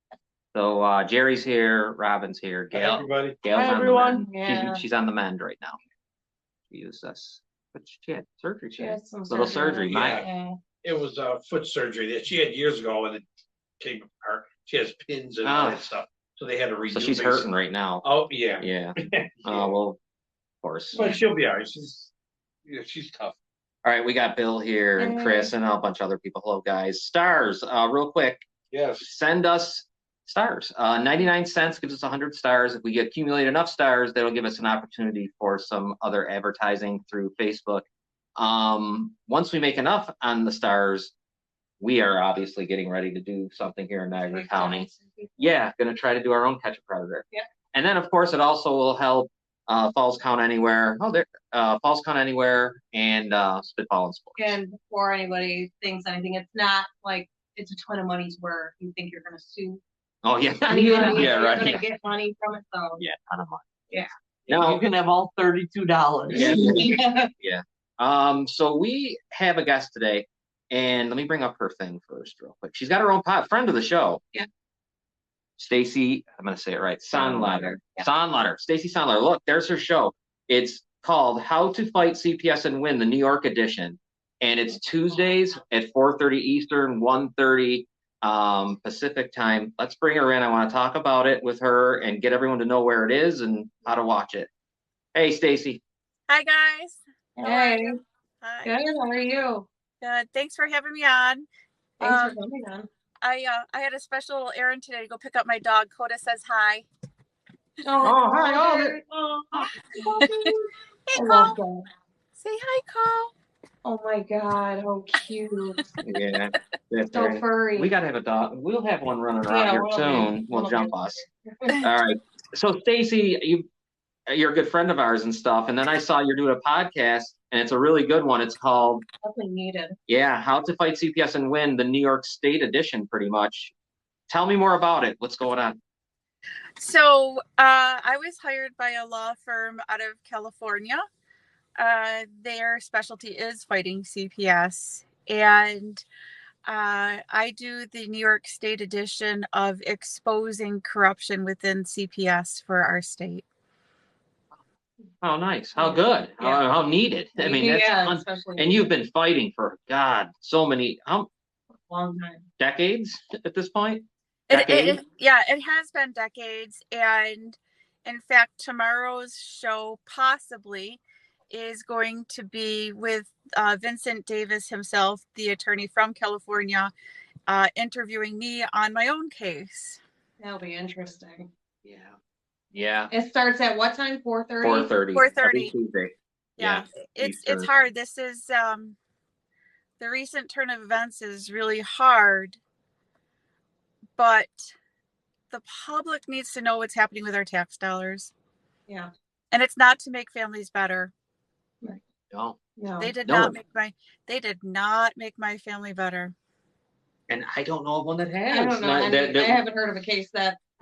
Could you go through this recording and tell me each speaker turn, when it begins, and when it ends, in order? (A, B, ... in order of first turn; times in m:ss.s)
0:00.5-0:05.8 A
0:02.7-0:03.4 B
0:03.5-0:04.8 C
0:03.6-0:03.9 D
0:06.7-0:10.2 A
0:08.8-0:10.6 C
0:09.9-0:10.3 B
0:10.8-0:13.2 B
0:13.8-0:17.5 B
0:15.4-0:15.9 A
0:16.9-0:18.0 A
0:18.0-0:19.8 B
0:18.6-0:20.0 A
0:20.6-0:21.0 A
0:20.9-0:22.1 B
0:22.6-0:23.4 B
0:23.8-0:28.4 A
0:25.0-0:25.5 C
0:28.7-0:29.1 B
0:29.0-0:37.8 A
0:38.4-0:41.1 A
0:41.8-0:54.5 A
0:44.1-0:45.5 C
0:54.4-0:59.8 C
1:00.2-1:01.8 A
1:00.7-1:03.0 C
1:00.8-1:01.7 D
1:03.0-1:03.6 A
1:04.5-1:06.9 D
1:04.5-1:04.8 A
1:06.3-1:06.8 A
1:06.3-1:07.3 C
1:07.4-1:14.2 A
1:15.6-1:34.5 A
1:17.1-1:18.1 C
1:35.1-1:35.8 A
1:36.3-1:38.7 E
1:37.4-1:38.0 C
1:38.6-1:39.6 C
1:40.0-1:41.5 E
1:42.0-1:42.9 C
1:42.0-1:42.4 E
1:43.2-1:46.9 E
1:47.8-1:51.8 C
1:48.0-1:49.0 A
1:49.8-1:50.5 E
1:51.1-1:51.6 E
1:52.4-1:53.3 E
1:53.8-1:55.8 C
1:56.0-2:01.2 A
1:57.1-1:57.9 C
1:59.5-2:01.8 C
2:01.8-2:03.7 A
2:04.3-2:09.0 A
2:09.2-2:10.0 C
2:10.1-2:13.7 A
2:14.3-2:15.8 A
2:16.8-2:21.0 E
2:21.8-2:26.0 E
2:26.6-2:33.4 E
2:35.2-2:41.3 A
2:35.8-2:36.6 C
2:37.4-2:38.9 C
2:41.9-2:42.5 C
2:42.6-2:45.0 A
2:44.5-2:56.9 E
2:57.5-3:00.0 E
3:00.4-3:01.5 C
3:01.8-3:02.2 A
3:02.7-3:03.1 A
3:03.1-3:04.9 C
3:04.6-3:07.7 A
3:05.1-3:05.7 E
3:06.6-3:09.0 E
3:10.0-3:12.6 E
3:14.2-3:14.7 E
3:15.5-3:18.3 E
3:19.5-3:21.1 E
3:22.3-3:22.6 A
3:22.8-3:23.1 C
3:23.0-3:26.3 E
3:23.2-3:23.5 A
3:27.3-3:29.6 A
3:28.5-3:30.6 C